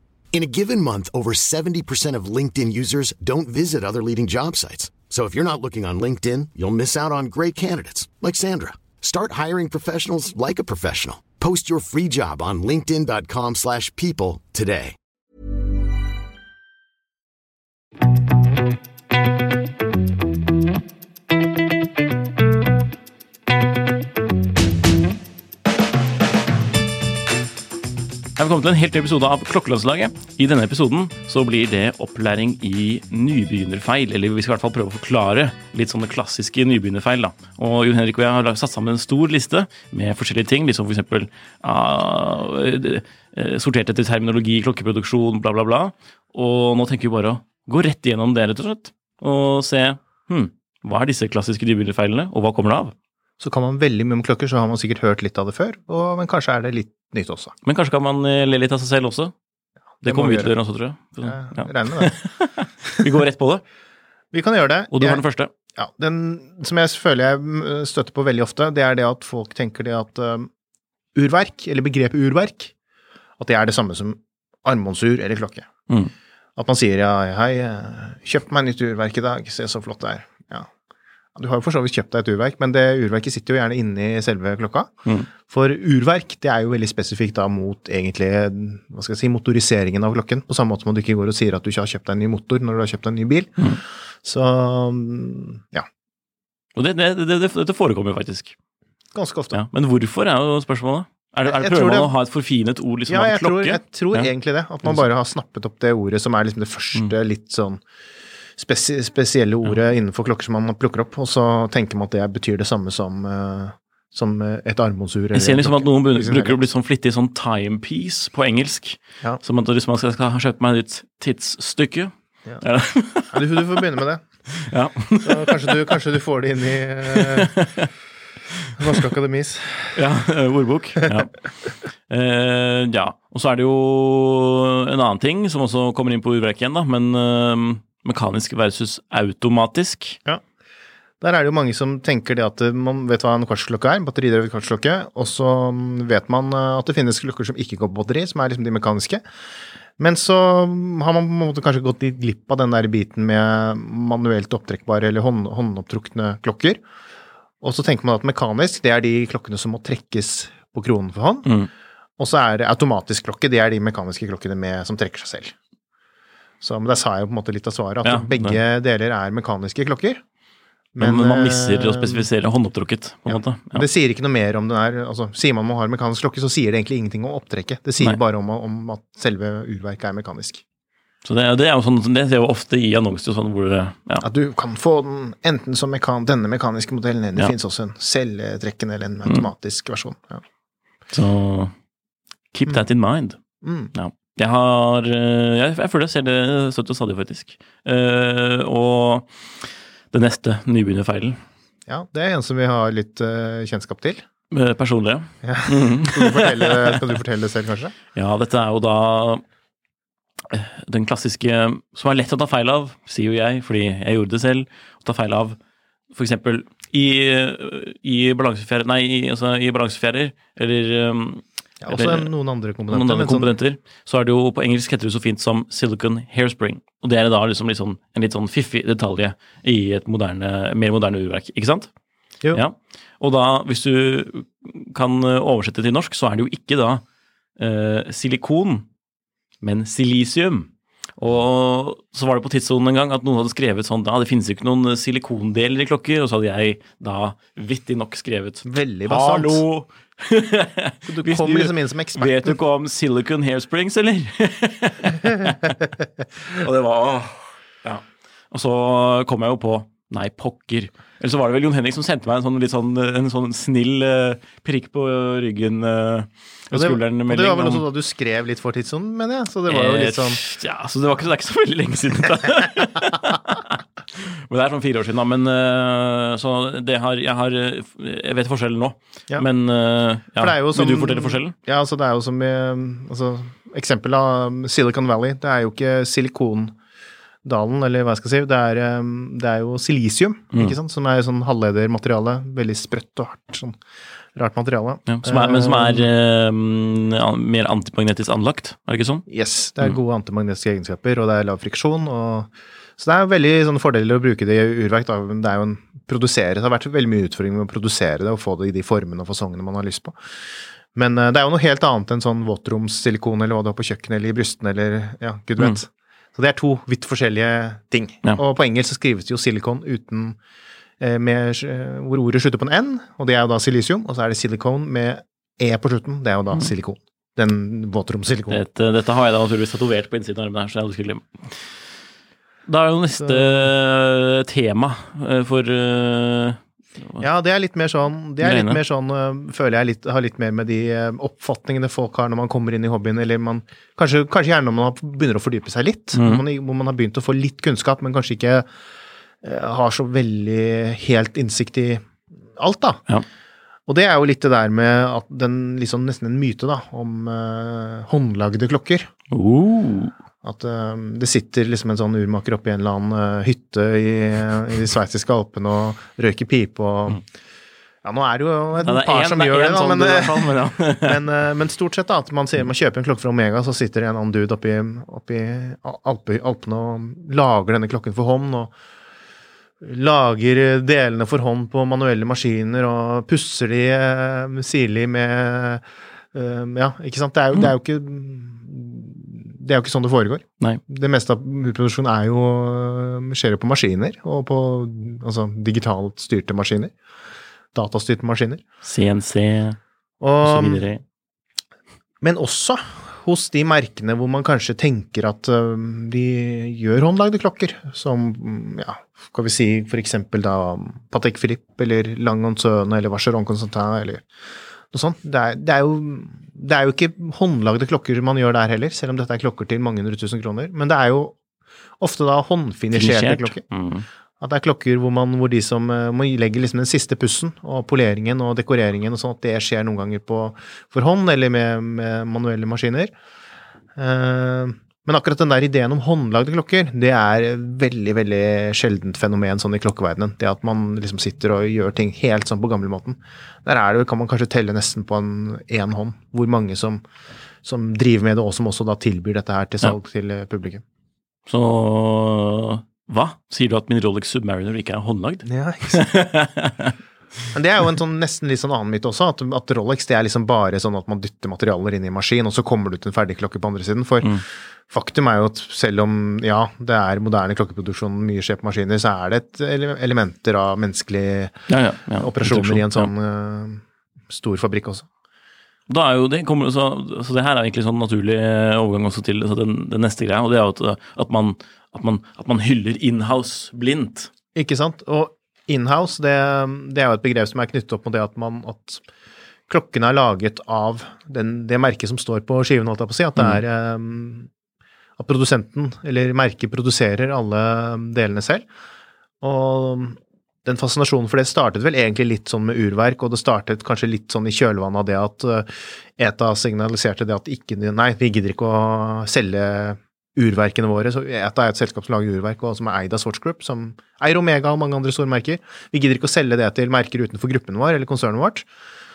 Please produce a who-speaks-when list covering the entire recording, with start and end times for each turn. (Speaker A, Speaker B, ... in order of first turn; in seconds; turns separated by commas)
Speaker A: 0.3-15.0, Speaker B: 28.4-52.9, Speaker C: 53.4-57.5, Speaker B: 57.6-59.3, Speaker C: 60.0-60.5, Speaker B: 60.0-63.6, Speaker C: 61.2-62.2, Speaker C: 64.3-65.2, Speaker B: 64.9-65.5, Speaker C: 65.8-70.5, Speaker C: 71.2-72.7, Speaker C: 73.4-75.7, Speaker C: 76.6-80.7, Speaker C: 81.4-84.9, Speaker C: 85.5-93.6, Speaker C: 94.2-95.9, Speaker B: 96.8-98.5, Speaker C: 99.1-99.6, Speaker B: 99.5-104.3, Speaker C: 101.5-102.1, Speaker C: 103.1-107.8, Speaker C: 108.6-116.6, Speaker B: 115.3-123.8, Speaker C: 123.3-124.2, Speaker B: 124.5-126.0, Speaker C: 125.2-127.5, Speaker B: 127.1-127.9, Speaker B: 128.7-129.1, Speaker C: 128.8-130.0, Speaker B: 129.9-140.2, Speaker C: 141.2-149.2, Speaker C: 150.0-156.8, Speaker C: 157.6-161.5, Speaker B: 161.4-161.7, Speaker C: 162.2-165.5, Speaker C: 166.6-170.2, Speaker B: 168.0-168.6, Speaker C: 170.9-172.3, Speaker B: 171.0-173.9, Speaker C: 173.3-180.6, Speaker B: 181.2-184.2, Speaker C: 184.2-190.4, Speaker B: 191.1-191.7, Speaker B: 192.5-193.4, Speaker C: 193.6-193.9, Speaker B: 193.9-201.4, Speaker C: 201.9-204.2, Speaker B: 204.5-207.0, Speaker C: 205.4-208.0, Speaker B: 208.2-209.4, Speaker B: 210.5-215.6, Speaker B: 216.1-222.3, Speaker C: 221.8-223.5, Speaker B: 222.9-231.9, Speaker B: 232.5-237.0, Speaker B: 237.6-238.9, Speaker B: 239.6-255.8, Speaker C: 248.7-249.7, Speaker C: 251.1-252.6, Speaker B: 256.5-267.9, Speaker C: 266.7-270.4, Speaker B: 269.7-281.6, Speaker C: 280.4-286.8, Speaker C: 287.4-293.8, Speaker C: 294.4-296.1, Speaker B: 295.1-299.2, Speaker C: 299.3-310.2, Speaker C: 310.9-320.4, Speaker C: 321.0-328.6, Speaker B: 328.5-331.6, Speaker B: 332.7-337.2, Speaker C: 333.2-333.7, Speaker C: 337.2-348.7, Speaker B: 338.4-338.8, Speaker B: 346.1-346.4, Speaker C: 349.4-352.1, Speaker C: 352.6-353.0, Speaker C: 353.9-359.1, Speaker B: 359.3-360.1, Speaker C: 360.4-367.2, Speaker C: 368.0-378.7, Speaker B: 368.8-371.2, Speaker C: 379.8-396.9, Speaker C: 397.7-398.6, Speaker B: 398.8-399.8, Speaker C: 400.2-400.9, Speaker B: 400.4-401.0, Speaker C: 402.2-414.3, Speaker C: 414.9-421.4, Speaker C: 422.0-423.6, Speaker B: 422.9-424.1, Speaker C: 424.4-433.1, Speaker C: 434.0-447.0, Speaker C: 447.6-450.8, Speaker B: 451.5-456.9, Speaker C: 455.4-456.0, Speaker C: 457.5-475.1, Speaker B: 471.7-473.1, Speaker B: 475.9-484.3, Speaker C: 484.6-489.0, Speaker C: 489.7-494.5, Speaker C: 495.2-498.7, Speaker C: 499.4-518.7